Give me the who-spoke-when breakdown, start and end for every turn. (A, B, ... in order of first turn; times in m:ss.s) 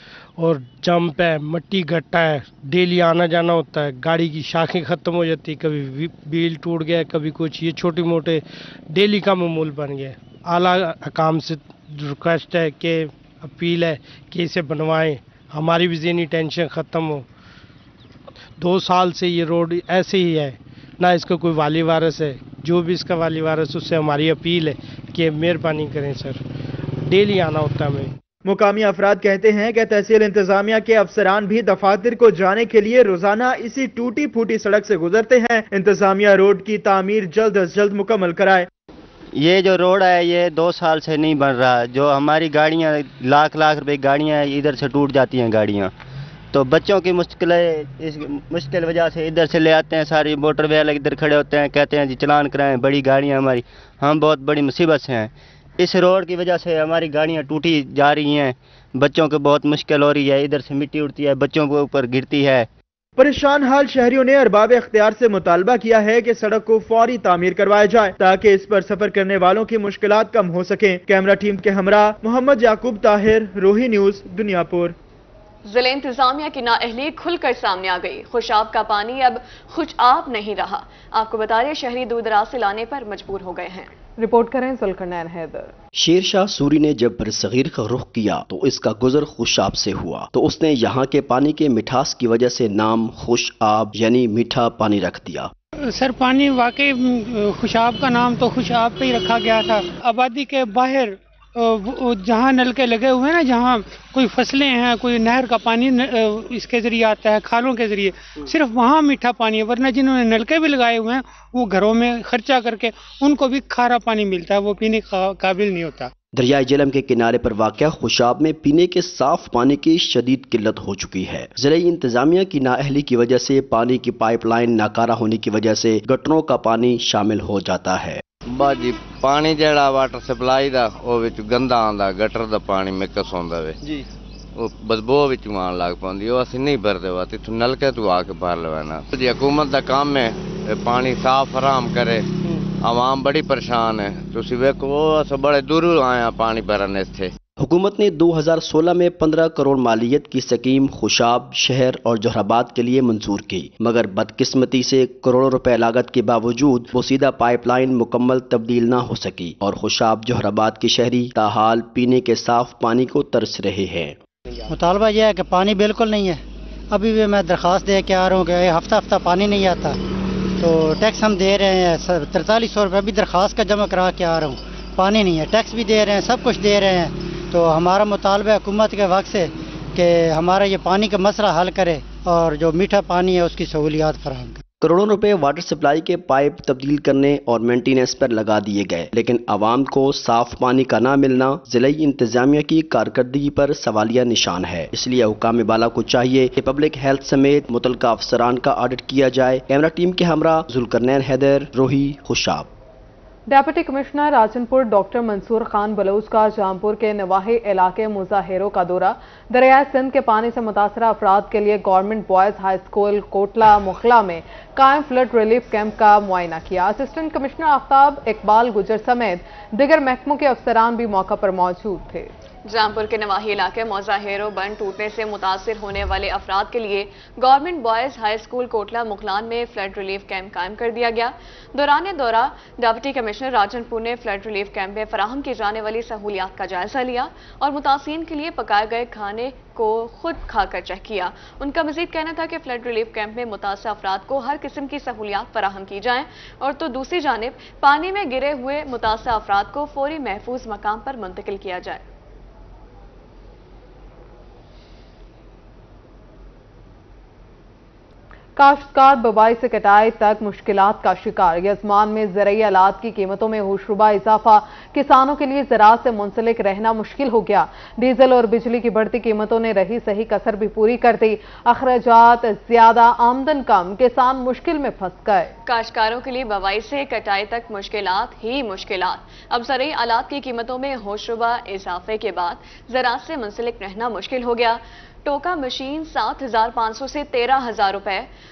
0:00.4-0:17.2 A
0:18.6-0:26.4 A
0:27.0-0:28.1 A
0:28.5-0:38.7 B
0:39.4-0:45.9 C
0:46.5-1:02.7 C
1:03.2-1:15.0 B
1:15.7-1:23.9 D
1:24.2-1:25.7 E
1:26.0-1:35.5 F
1:35.9-1:56.1 G
1:56.3-2:08.2 F
2:08.5-2:13.8 H
2:14.6-2:27.3 H
2:27.6-2:44.2 F
2:44.7-2:50.0 I
2:50.6-3:04.6 I
3:04.8-3:22.7 F
3:23.5-3:42.3 E
3:42.7-4:12.0 D
4:18.6-4:35.5 E
4:35.6-4:48.3 D